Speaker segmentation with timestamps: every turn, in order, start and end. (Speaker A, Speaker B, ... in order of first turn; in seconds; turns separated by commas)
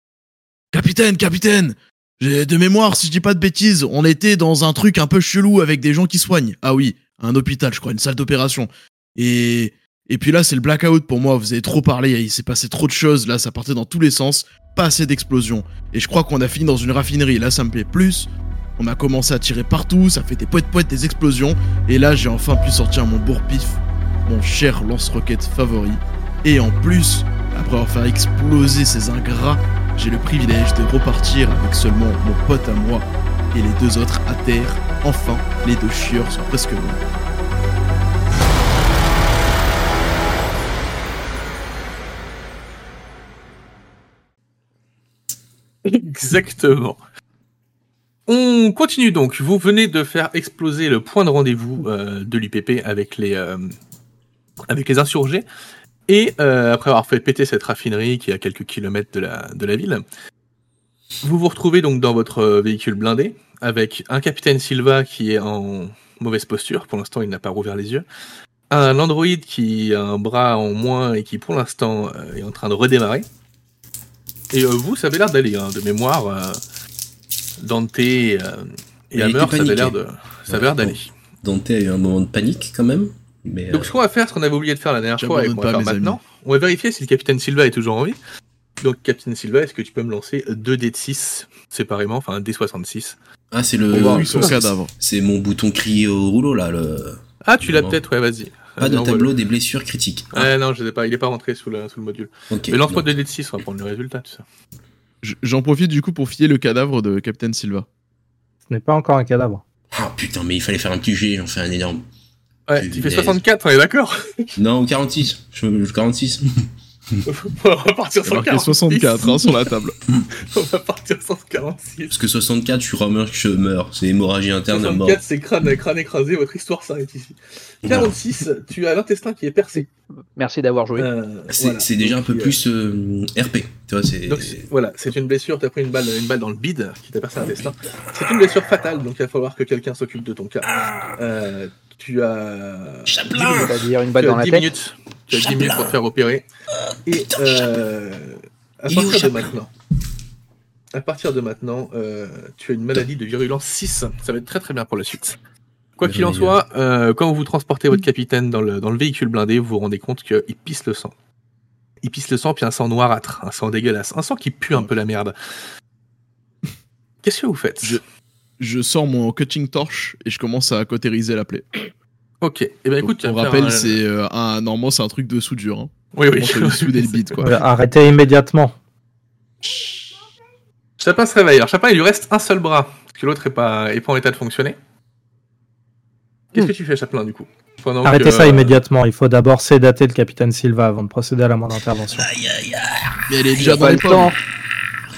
Speaker A: 0.7-37.0, Speaker B: 45.8-47.0, Speaker B: 48.3-53.7, Speaker B: 54.7-55.4, Speaker B: 56.1-60.0, Speaker B: 61.2-68.0, Speaker B: 68.7-73.2, Speaker B: 74.5-76.6, Speaker B: 77.6-81.1, Speaker C: 79.1-83.9, Speaker B: 83.7-88.2, Speaker A: 85.2-86.2, Speaker B: 88.8-93.2, Speaker C: 93.5-98.0, Speaker A: 93.9-94.9, Speaker B: 93.9-94.5, Speaker B: 97.4-99.3, Speaker C: 98.8-100.5, Speaker B: 100.3-104.4, Speaker C: 102.5-103.1, Speaker A: 105.2-107.9, Speaker D: 108.7-109.6, Speaker C: 109.9-112.0, Speaker B: 112.7-114.5, Speaker C: 112.8-113.4, Speaker C: 114.5-116.5, Speaker B: 117.2-119.5, Speaker A: 118.2-119.9, Speaker B: 120.3-122.1, Speaker C: 122.1-125.2, Speaker B: 124.7-129.9, Speaker C: 127.8-128.2, Speaker E: 130.3-131.1, Speaker B: 130.9-132.6, Speaker C: 131.5-134.7, Speaker B: 134.3-146.4, Speaker C: 140.6-141.2, Speaker C: 143.1-143.8, Speaker E: 143.5-144.7, Speaker C: 145.3-146.0, Speaker C: 146.7-147.8, Speaker B: 147.1-149.7, Speaker C: 148.9-149.6, Speaker B: 150.9-155.4, Speaker B: 156.0-161.1, Speaker C: 156.0-156.6, Speaker B: 162.0-165.3, Speaker B: 167.2-168.0, Speaker A: 168.6-171.8, Speaker B: 172.4-174.0, Speaker A: 173.0-177.6, Speaker B: 176.1-177.4, Speaker D: 177.4-178.7, Speaker A: 179.6-180.0, Speaker B: 181.0-184.8, Speaker B: 186.5-188.8, Speaker D: 188.0-192.3, Speaker C: 192.1-193.9, Speaker A: 193.3-194.3, Speaker E: 193.7-194.4